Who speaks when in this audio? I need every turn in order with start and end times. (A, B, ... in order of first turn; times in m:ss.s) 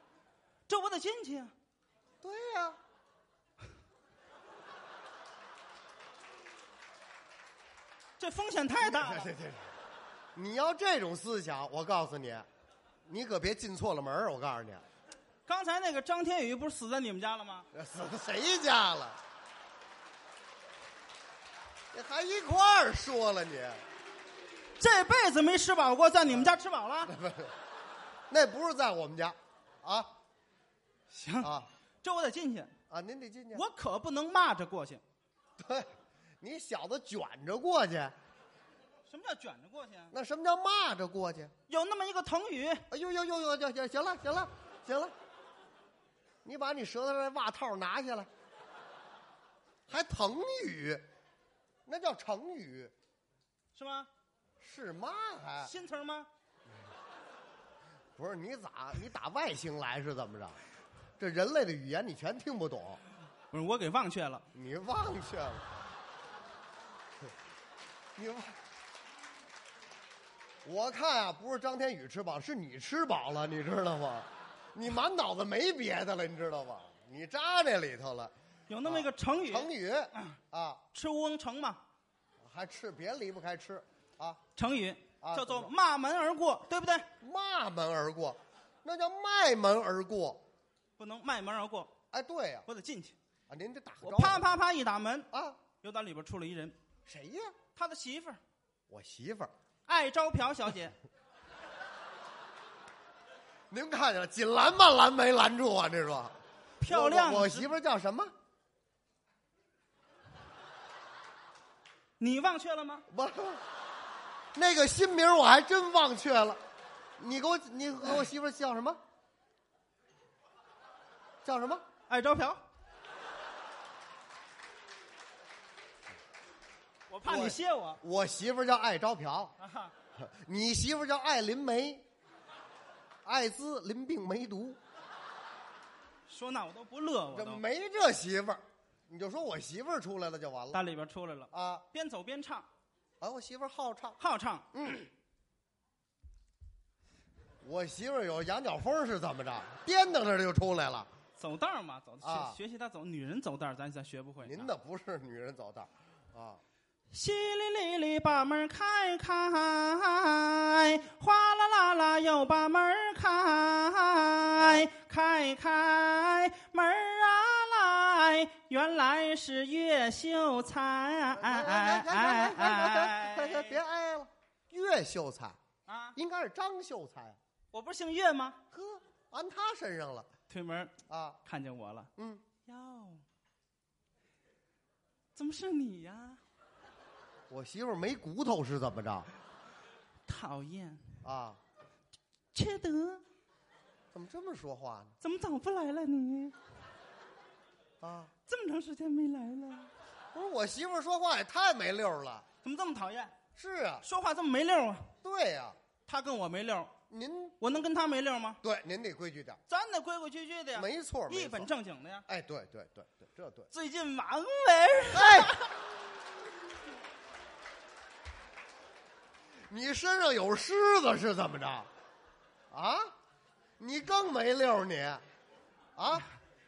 0:00.7-0:01.5 A
0:02.2-0:02.8 B
0:08.2-0:09.3 A
0:08.8-0:09.7 B
0:10.3-0:12.4 B
0:13.0-0:14.8 B
0:15.5-0:17.7 A
0:17.7-0:19.2 B
0:21.9-0:23.8 B
0:24.8-0:27.1 A
0:26.3-0:27.5 B
0:28.3-0:30.1 B
0:31.1-0:32.7 A
0:31.4-0:31.7 B
0:32.9-0:33.6 B
0:33.5-0:35.0 A
0:35.6-0:38.2 B
0:39.0-0:40.1 A
0:40.1-0:41.5 B
0:41.7-0:42.8 A
0:42.9-0:45.1 B
0:46.4-0:48.3 B
0:49.9-0:51.0 B
0:51.8-0:52.9 B
0:53.7-0:54.1 A
0:54.6-0:55.7 B
0:55.6-0:56.3 A
0:58.2-1:00.6 B
1:01.2-1:03.0 B
1:03.5-1:04.4 A
1:04.5-1:05.8 B
1:08.1-1:08.6 B
1:10.6-1:20.8 B
1:18.7-1:20.4 A
1:20.9-1:21.8 A
1:22.4-1:24.4 B
1:24.5-1:27.1 A
1:25.2-1:25.7 B
1:27.2-1:30.4 B
1:31.0-1:31.9 A
1:32.1-1:32.7 B
1:32.6-1:33.2 A
1:33.5-1:34.4 B
1:34.0-1:35.3 A
1:35.3-1:35.6 B
1:35.8-1:36.8 A
1:37.0-1:37.5 B
1:37.7-1:38.4 A
1:38.9-1:39.5 B
1:39.9-1:41.0 A
1:43.7-1:48.3 B
1:46.8-1:47.7 A
1:52.2-1:53.1 A
1:53.1-1:53.6 B
1:54.5-1:56.6 B
1:57.2-1:59.0 B
2:01.4-2:01.8 B
2:02.1-2:02.6 A
2:07.1-2:08.0 A
2:07.2-2:09.6 B
2:09.6-2:09.9 A
2:10.1-2:12.0 B
2:13.2-2:14.8 B
2:16.3-2:17.6 A
2:17.3-2:20.8 B
2:20.7-2:22.7 A
2:21.5-2:21.8 B
2:23.2-2:24.2 B
2:24.2-2:25.1 A
2:27.6-2:31.1 B
2:31.4-2:34.7 A
2:32.2-2:32.6 B
2:34.4-2:36.6 B
2:37.1-2:53.8 A
2:44.6-2:44.9 B
2:51.3-2:55.6 B
2:55.8-2:56.2 A
2:56.1-2:57.4 B
2:57.7-2:58.6 A
2:58.7-3:00.3 B
3:00.5-3:02.1 A
3:01.1-3:01.4 B
3:02.2-3:02.4 B
3:02.7-3:03.2 A
3:05.3-3:06.4 A
3:07.5-3:09.3 B
3:10.3-3:11.1 A
3:11.2-3:11.6 B
3:12.5-3:13.2 A
3:14.1-3:15.2 B
3:15.2-3:16.6 A
3:18.0-3:18.3 B
3:18.5-3:19.9 A
3:20.3-3:22.4 B
3:22.6-3:23.4 A
3:23.6-3:24.0 B
3:24.0-3:25.1 A
3:25.2-3:25.8 B
3:26.0-3:26.9 A
3:27.1-3:27.6 B
3:27.6-3:28.6 A
3:28.6-3:29.6 B
3:29.7-3:32.2 A
3:30.7-3:31.7 B
3:32.3-3:33.7 B
3:33.7-3:35.7 A
3:35.1-3:35.6 B
3:39.7-3:41.9 B
3:42.7-3:43.1 B
3:43.8-3:45.2 B
3:46.0-3:46.3 B